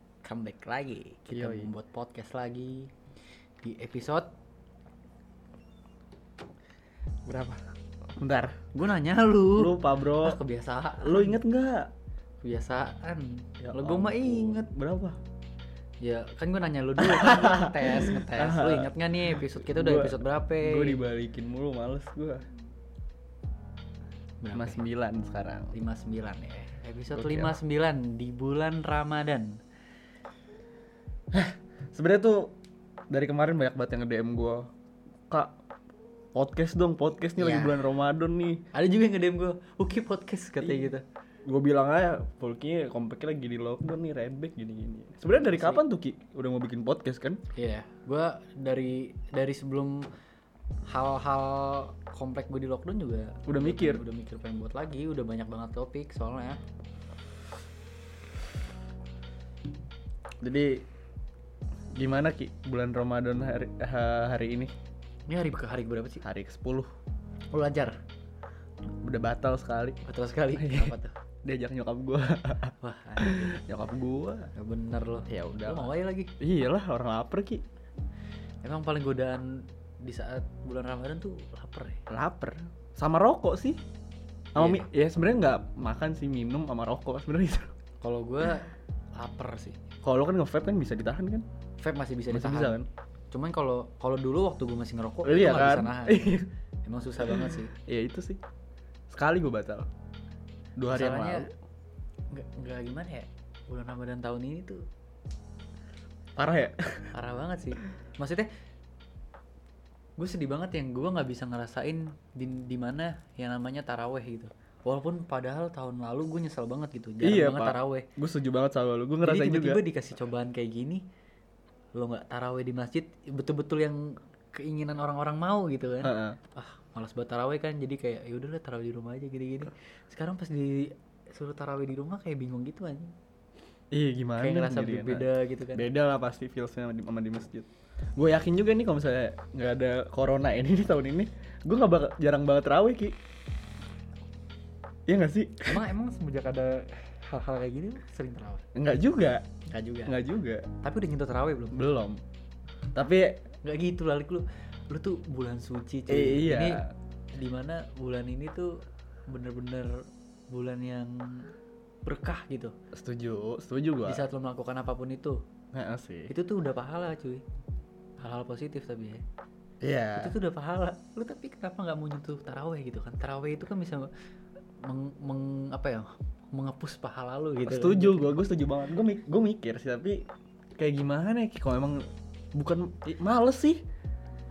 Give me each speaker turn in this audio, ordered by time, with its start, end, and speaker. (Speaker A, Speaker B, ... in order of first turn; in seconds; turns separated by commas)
Speaker A: 0.2-2.9, Speaker B: 1.3-1.7, Speaker A: 3.6-4.3, Speaker B: 7.3-7.6, Speaker B: 8.2-8.6, Speaker A: 8.7-11.4, Speaker B: 9.6-10.4, Speaker B: 11.0-11.9, Speaker A: 12.4-14.6, Speaker B: 13.6-15.2, Speaker A: 16.0-21.0, Speaker B: 17.0-22.4, Speaker A: 24.4-24.8, Speaker B: 24.6-25.7, Speaker A: 25.7-29.6, Speaker B: 27.1-27.5, Speaker B: 31.3-32.6, Speaker B: 33.1-34.7, Speaker B: 36.3-38.6, Speaker A: 37.4-37.8, Speaker A: 38.7-41.0, Speaker B: 41.5-47.4, Speaker A: 45.3-45.8, Speaker A: 47.5-50.0, Speaker A: 50.9-56.6, Speaker B: 53.5-54.0, Speaker B: 60.4-60.9, Speaker B: 62.0-64.7, Speaker A: 65.3-66.2, Speaker B: 66.2-66.9, Speaker A: 67.5-68.0, Speaker B: 69.0-70.0, Speaker A: 70.0-71.1, Speaker B: 70.6-74.5, Speaker A: 72.8-73.6, Speaker A: 74.6-76.3, Speaker B: 75.3-77.6, Speaker A: 78.6-82.0, Speaker B: 82.1-83.8, Speaker B: 84.5-87.7, Speaker A: 84.6-84.9, Speaker A: 88.0-89.8, Speaker B: 90.0-91.5, Speaker A: 91.8-92.8, Speaker B: 92.3-92.9, Speaker A: 93.3-97.7, Speaker B: 95.2-96.5, Speaker B: 97.2-98.4, Speaker B: 99.1-99.9, Speaker B: 100.8-101.5, Speaker A: 100.9-101.5, Speaker A: 102.3-104.8, Speaker B: 106.4-107.2, Speaker A: 107.1-108.5, Speaker A: 110.2-118.1, Speaker B: 117.2-119.8, Speaker A: 119.2-121.0, Speaker A: 122.0-133.1, Speaker B: 126.0-126.4, Speaker B: 133.9-143.2, Speaker A: 134.4-135.9, Speaker B: 145.1-145.8, Speaker A: 145.7-148.6, Speaker B: 148.8-149.4, Speaker A: 149.7-150.2, Speaker B: 150.1-150.7, Speaker A: 150.8-151.8, Speaker B: 151.7-152.2, Speaker B: 152.9-153.4, Speaker A: 153.6-156.8, Speaker B: 156.1-156.8, Speaker A: 157.3-158.7, Speaker A: 159.3-159.9, Speaker A: 160.5-161.5, Speaker A: 162.1-162.7, Speaker B: 162.9-164.2, Speaker A: 164.1-165.4, Speaker B: 165.7-166.3, Speaker A: 166.3-167.4, Speaker A: 168.2-169.2, Speaker B: 169.8-170.3, Speaker A: 170.2-174.1, Speaker A: 174.8-178.3, Speaker B: 177.6-180.3, Speaker B: 180.8-183.8